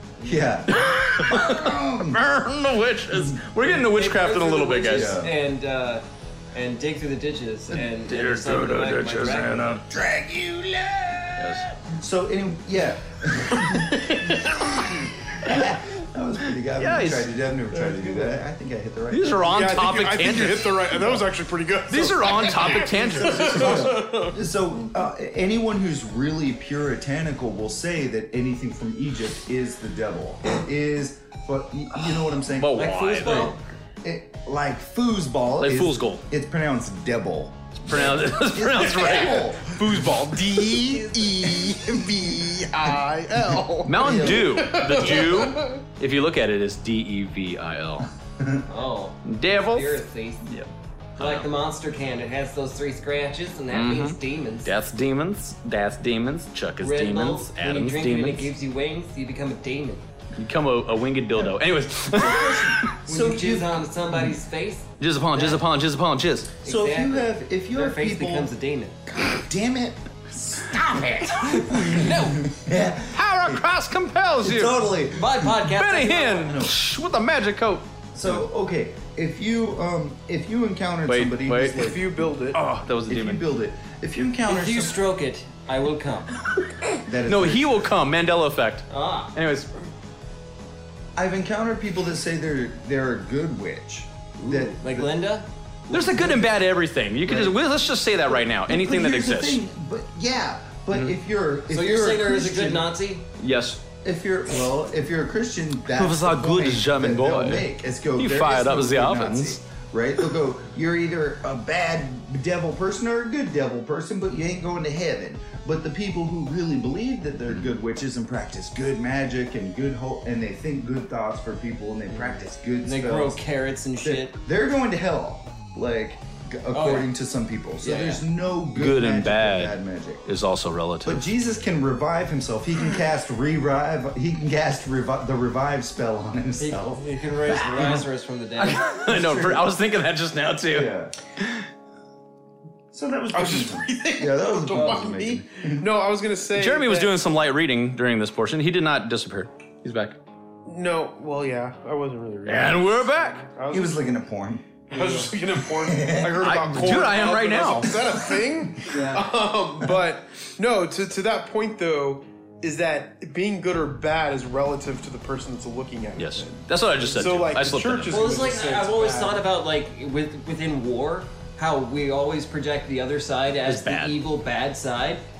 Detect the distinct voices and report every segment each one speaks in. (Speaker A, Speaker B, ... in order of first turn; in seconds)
Speaker A: 0.2-2.2, 4.9-5.3, 9.7-19.8, 22.7-40.0, 41.6-42.6, 44.0-44.7, 48.4-48.6, 62.1-64.3, 66.6-68.5, 69.1-73.6, 74.4-75.7, 76.4-76.8, 78.1-82.3, 83.1-85.0, 87.0-87.9, 91.2-95.1, 95.9-96.5, 97.3-97.5, 98.7-102.9, 104.0-123.4, 124.0-130.2, 131.0-138.0, 139.1-139.7, 140.7-141.1, 142.9-145.9, 153.7-154.7, 155.7-156.6
Speaker B: 0.7-5.2, 8.1-9.8, 11.4-11.7, 13.7-15.6, 16.8-17.3, 19.1-21.2, 21.9-24.3, 32.4-33.5, 35.6-36.2, 37.8-39.4, 43.8-48.1, 49.2-51.5, 53.7-58.5, 60.4-62.9, 65.0-66.5, 73.1-74.8, 75.6-78.4, 81.0-81.9, 82.5-83.4, 87.2-89.7, 95.9-99.6, 103.4-103.8, 106.0-109.6, 128.7-129.7, 130.2-131.2, 138.6-141.6, 146.5-150.2, 152.4-153.4, 156.4-157.9, 166.2-168.4, 173.6-174.2
Speaker C: 3.6-9.8, 17.8-18.3, 32.7-33.6, 48.7-50.4, 51.2-54.7, 56.8-60.0, 63.0-65.6, 66.6-69.0, 71.6-72.4, 75.1-76.5, 84.5-86.3, 88.9-89.3, 94.4-95.5, 101.7-103.2, 122.8-124.3, 126.7-127.1, 127.8-128.2, 136.6-138.9, 144.7-145.1, 154.9-155.3, 158.8-159.3, 168.1-175.2
Speaker D: 19.5-24.2, 38.9-45.8, 81.7-82.6, 143.3-147.1, 150.6-154.1, 154.9-169.4